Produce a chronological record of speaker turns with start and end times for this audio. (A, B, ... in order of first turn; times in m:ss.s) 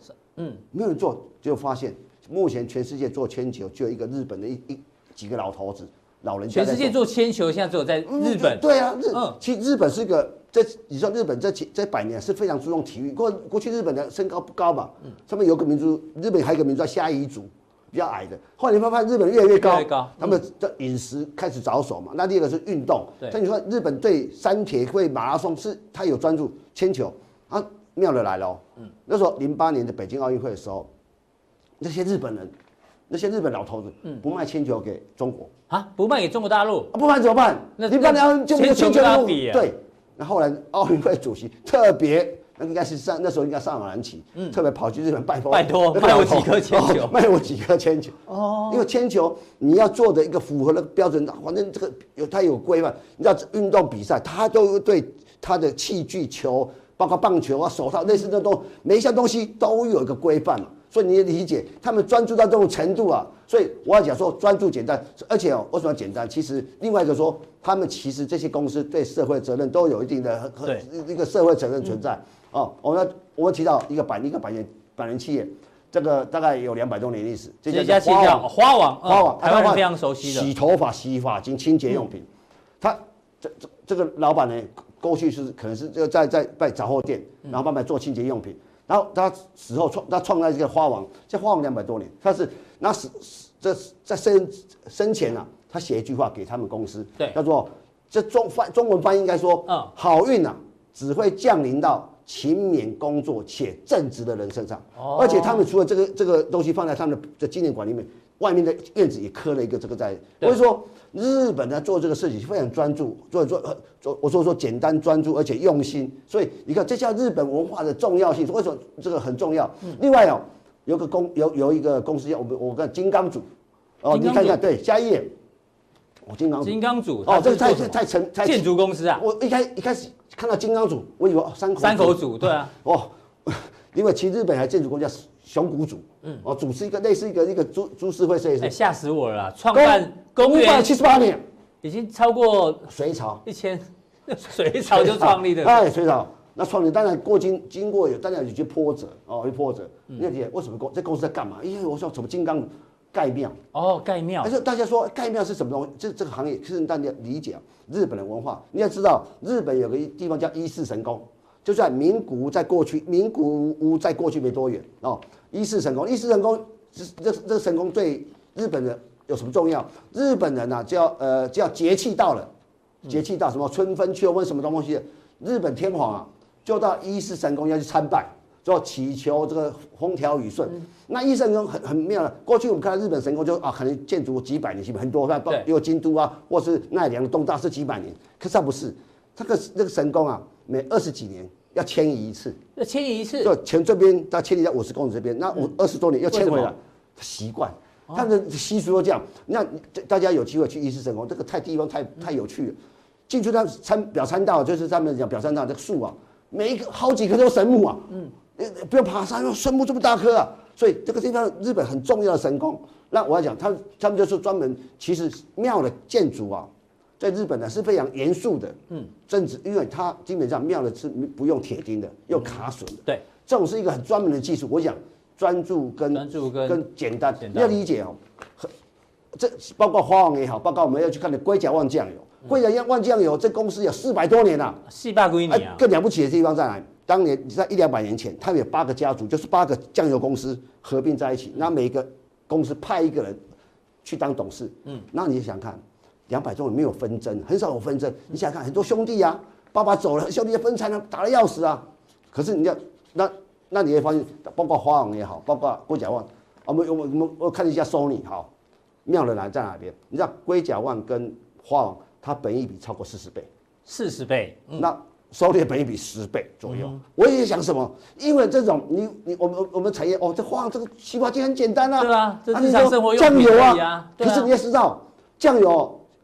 0:00.4-0:00.6 A
0:00.7-0:07.0 B
0:06.5-0:09.4 A
0:08.0-0:30.9 B
0:19.6-0:20.4 A
0:31.8-0:32.5 B
0:33.1-0:35.5 B
0:35.7-0:36.9 A
0:36.9-1:18.5 B
0:37.8-0:39.7 A
0:45.5-0:47.2 A
0:48.3-0:48.8 A
1:17.7-1:20.5 A
1:19.0-1:22.3 B
1:22.8-2:03.4 B
1:45.0-1:45.6 A
2:04.0-2:05.3 B
2:04.1-2:04.6 A
2:06.3-2:18.7 B
2:06.6-2:09.2 A
2:11.8-2:12.7 A
2:18.6-2:20.9 A
2:19.7-2:21.4 B
2:21.8-2:22.9 A
2:22.9-2:23.4 B
2:23.4-2:25.8 A
2:24.8-2:33.6 B
2:33.7-2:34.5 A
2:34.4-2:52.5 B
2:53.0-3:12.6 B
3:12.8-3:13.5 A
3:13.4-3:22.8 B
3:16.3-3:16.7 A
3:23.3-3:38.8 B
3:39.3-3:48.7 B
3:46.1-3:46.8 A
3:47.4-3:47.8 A
3:49.3-3:54.8 B
3:54.9-3:55.8 A
3:55.5-4:03.4 B
4:04.0-4:18.5 B
4:19.0-4:23.5 B
4:23.9-4:24.9 A
4:24.8-4:36.0 B
4:26.7-4:27.0 A
4:32.0-4:34.5 A